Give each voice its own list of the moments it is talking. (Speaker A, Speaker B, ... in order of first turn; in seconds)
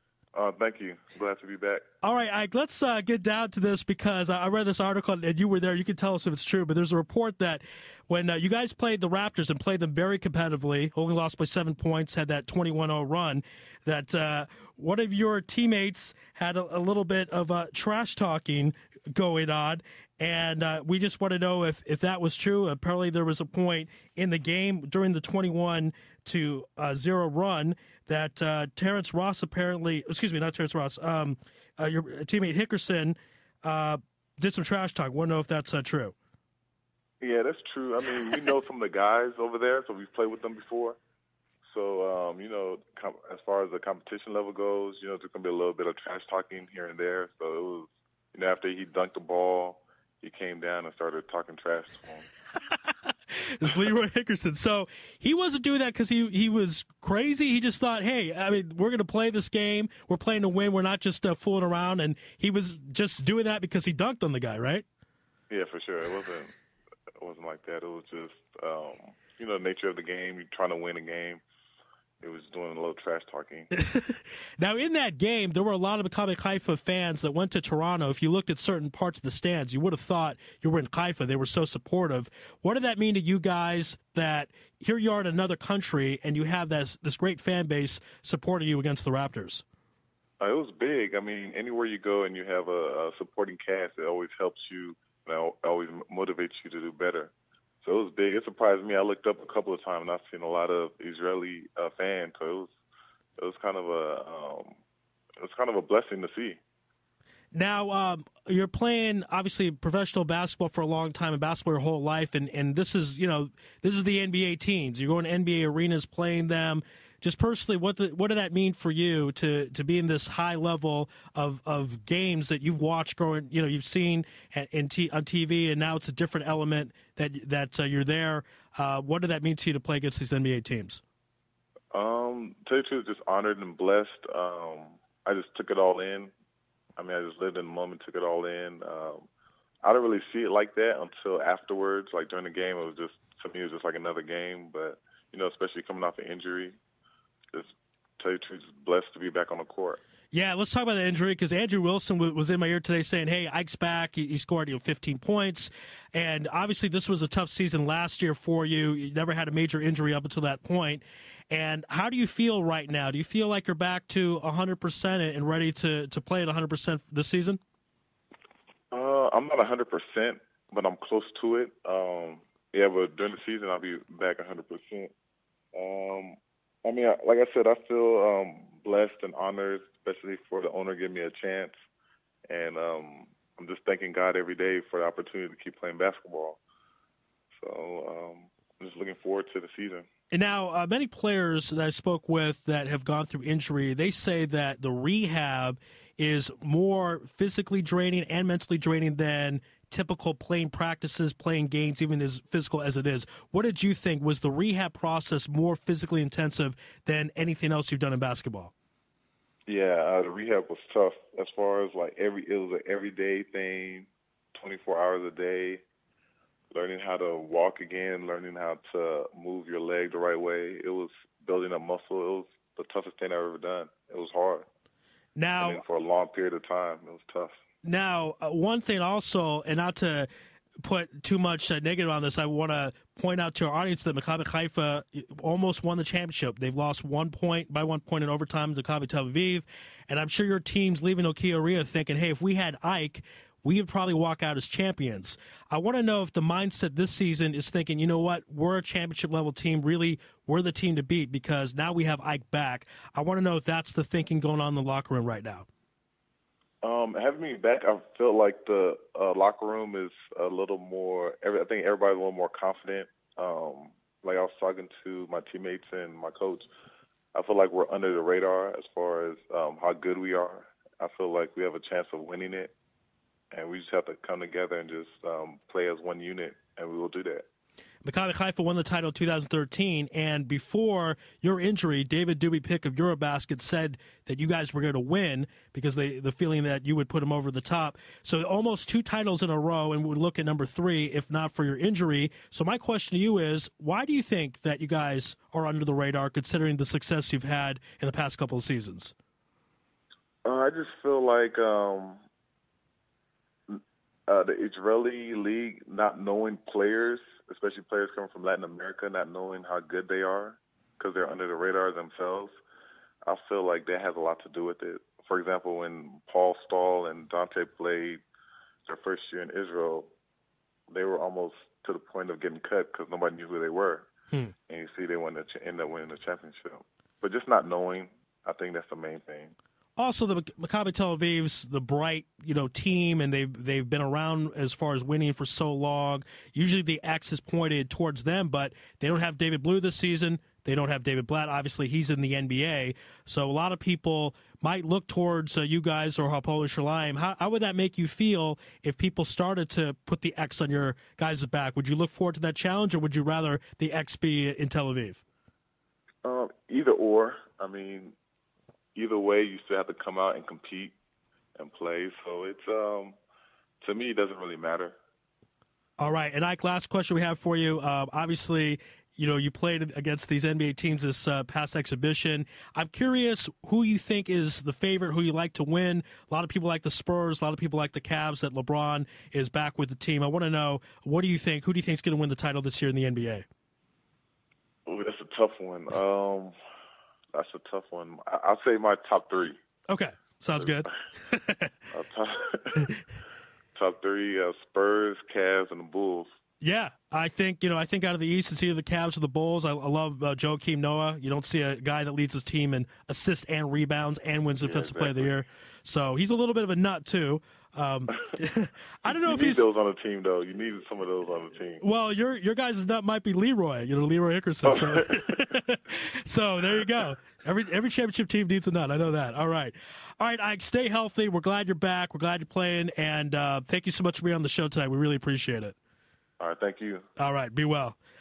Speaker A: 0.3-1.9, 37.2-41.0, 41.6-52.3, 65.5-66.5, 67.2-71.4, 72.2-73.7, 90.4-97.3, 97.8-102.7, 103.4-104.8, 105.4-106.6, 131.9-136.3, 137.0-139.3, 139.8-146.8, 147.5-150.0, 168.9-175.1, 175.7-181.7, 182.5-186.6, 187.6-190.1, 209.7-215.8, 216.7-224.7, 225.6-227.6, 256.8-266.7, 267.3-272.7, 273.5-277.5, 300.4-302.2, 303.7-312.5, 313.2-318.2, 318.9-320.1, 320.9-324.1, 324.7-329.6, 356.2-358.1, 358.9-360.9, 361.6-363.2, 363.8-365.0, 384.9-386.6, 387.3-389.6, 390.6-390.9, 391.9-392.9, 393.7-396.3, 404.6-405.3, 409.1-411.8, 414.6-415.5, 426.4-427.1
Speaker B: 2.0-36.1, 52.7-64.8, 73.7-89.6, 107.5-131.0, 150.3-167.6, 190.3-208.7, 225.4-225.8, 227.8-230.3, 230.8-255.7, 278.0-299.1, 330.0-355.2, 366.0-383.4, 389.9-391.7, 396.6-409.7, 411.8-425.8, 427.2-428.0